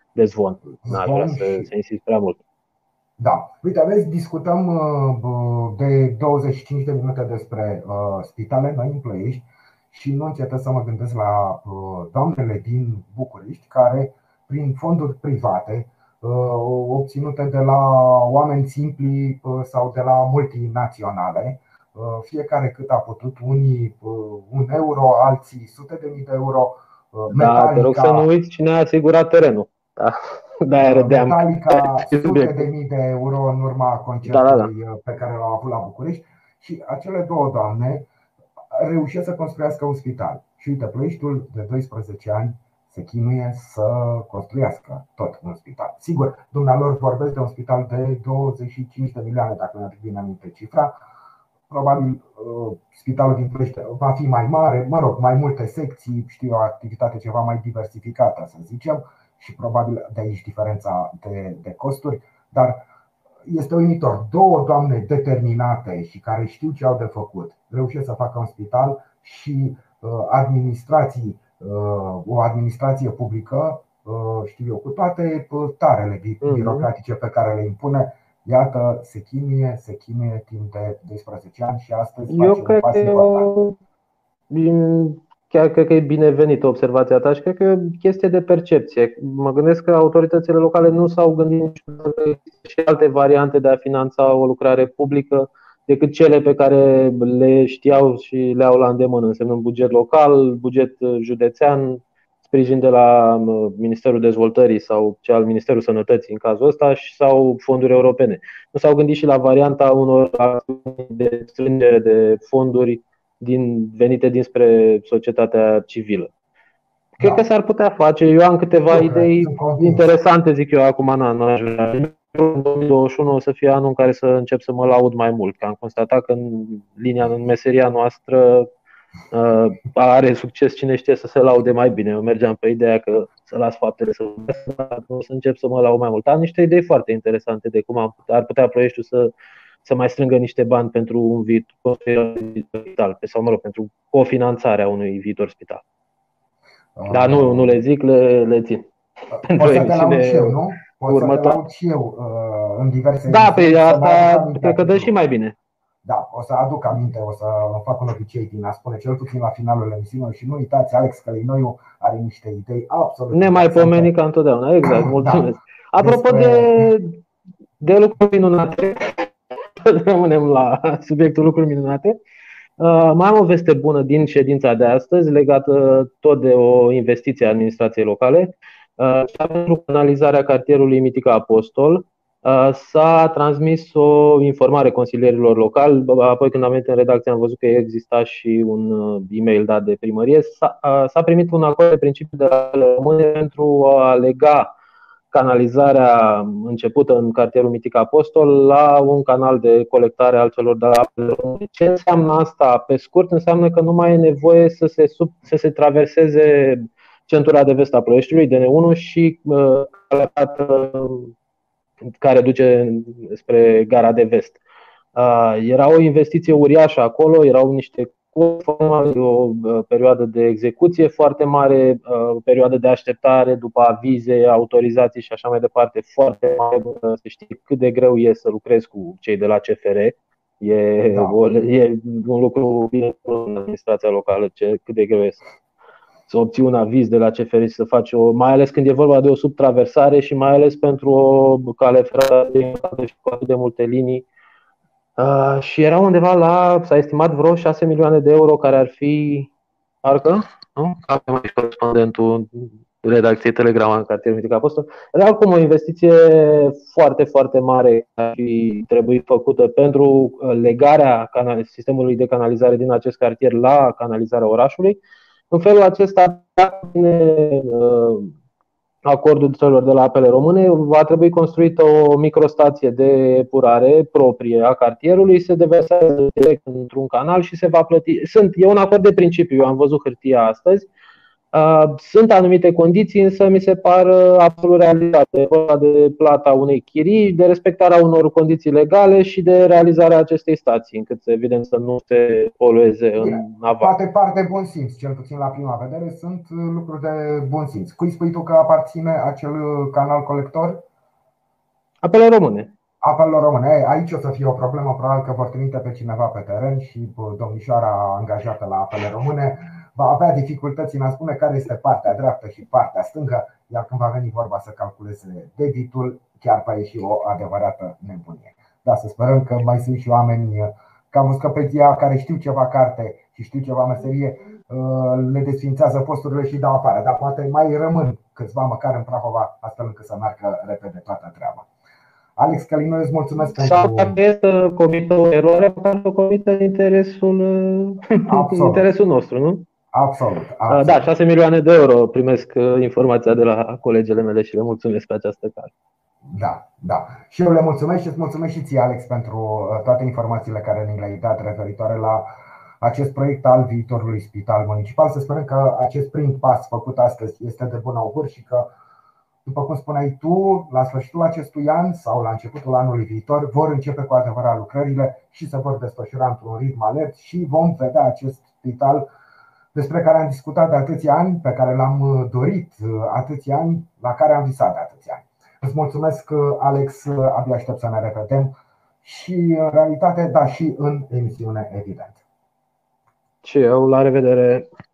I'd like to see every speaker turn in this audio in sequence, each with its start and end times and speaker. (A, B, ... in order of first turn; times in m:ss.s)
0:00.2-0:02.4 A
0:00.8-0:01.7 B
0:03.2-0:28.3 B
0:27.3-0:32.7 A
0:30.8-0:38.1 B
0:34.3-0:34.7 A
0:38.7-0:51.0 B
0:51.7-1:02.9 B
1:03.4-1:23.5 B
1:16.4-1:16.9 A
1:22.3-1:23.8 A
1:24.5-1:56.3 A
1:57.2-1:57.4 B
1:57.2-2:08.7 A
1:58.9-2:00.1 B
2:09.3-2:19.3 A
2:19.8-2:25.8 A
2:27.0-2:27.8 B
2:27.1-2:28.9 A
2:29.3-2:35.1 B
2:29.4-2:31.6 A
2:33.3-2:35.6 A
2:36.0-2:44.1 B
2:43.3-2:47.2 A
2:44.8-2:46.9 B
2:47.8-2:52.2 A
2:52.8-3:14.7 A
3:15.3-3:31.3 A
3:32.2-3:34.6 A
3:35.2-3:55.4 A
3:56.3-4:04.3 A
4:05.2-4:09.5 A
4:10.0-4:25.0 A
4:25.5-4:28.3 A
4:29.0-4:40.9 A
4:41.5-4:53.9 A
4:53.2-5:00.9 B
5:02.0-5:02.7 A
5:03.0-5:31.7 B
5:32.4-5:34.2 B
5:33.6-5:39.6 A
5:38.3-5:38.9 B
5:39.9-5:41.1 B
5:40.7-5:45.7 A
5:46.3-5:52.3 B
5:52.8-5:58.7 B
5:59.4-6:09.1 B
6:09.7-6:22.2 B
6:23.4-6:24.7 A